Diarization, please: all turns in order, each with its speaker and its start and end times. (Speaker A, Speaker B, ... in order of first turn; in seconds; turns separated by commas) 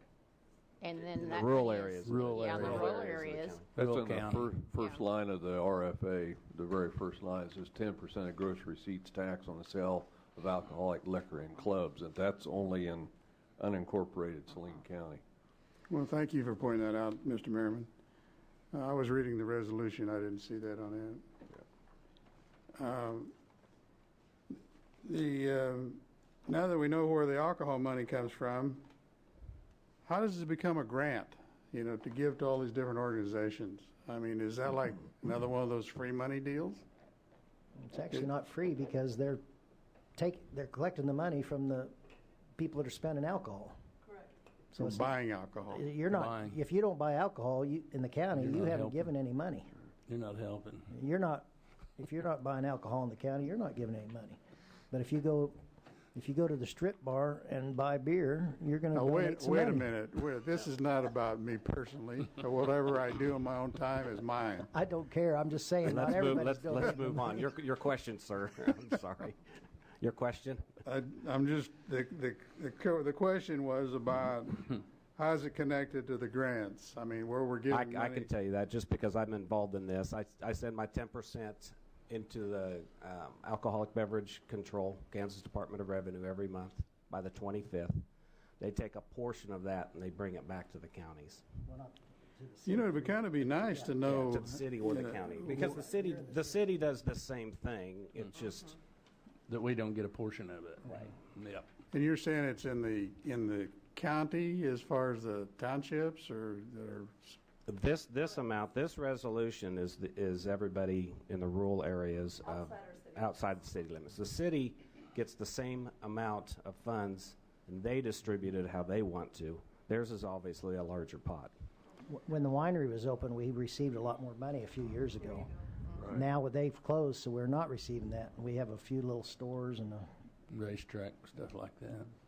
Speaker A: 0.8-3.6, Speaker B: 1.2-3.7, Speaker C: 2.0-2.9, Speaker C: 3.8-4.6, Speaker D: 3.8-15.2, Speaker E: 15.9-17.9, Speaker E: 18.7-21.2, Speaker E: 22.8-23.3, Speaker E: 24.5-28.9, Speaker E: 30.1-36.8, Speaker F: 37.8-39.4, Speaker F: 40.1-41.9, Speaker F: 42.6-43.7, Speaker F: 44.8-45.1, Speaker E: 44.8-45.9, Speaker F: 45.7-49.7, Speaker C: 46.1-46.6, Speaker C: 48.4-49.1, Speaker C: 50.1-50.9, Speaker F: 50.9-54.4, Speaker F: 54.9-55.6, Speaker F: 56.1-59.9, Speaker E: 58.9-64.7, Speaker F: 64.7-67.4, Speaker B: 65.8-69.4, Speaker B: 70.0-70.7, Speaker E: 70.8-78.3, Speaker B: 77.7-88.0, Speaker B: 88.6-91.4, Speaker F: 91.7-94.3, Speaker E: 92.7-95.7, Speaker B: 94.0-98.8, Speaker F: 95.1-96.6, Speaker C: 99.5-101.7, Speaker E: 101.9-107.4, Speaker B: 107.7-121.5, Speaker F: 122.1-125.5, Speaker D: 126.0-126.2, Speaker F: 126.0-130.1, Speaker C: 130.5-132.1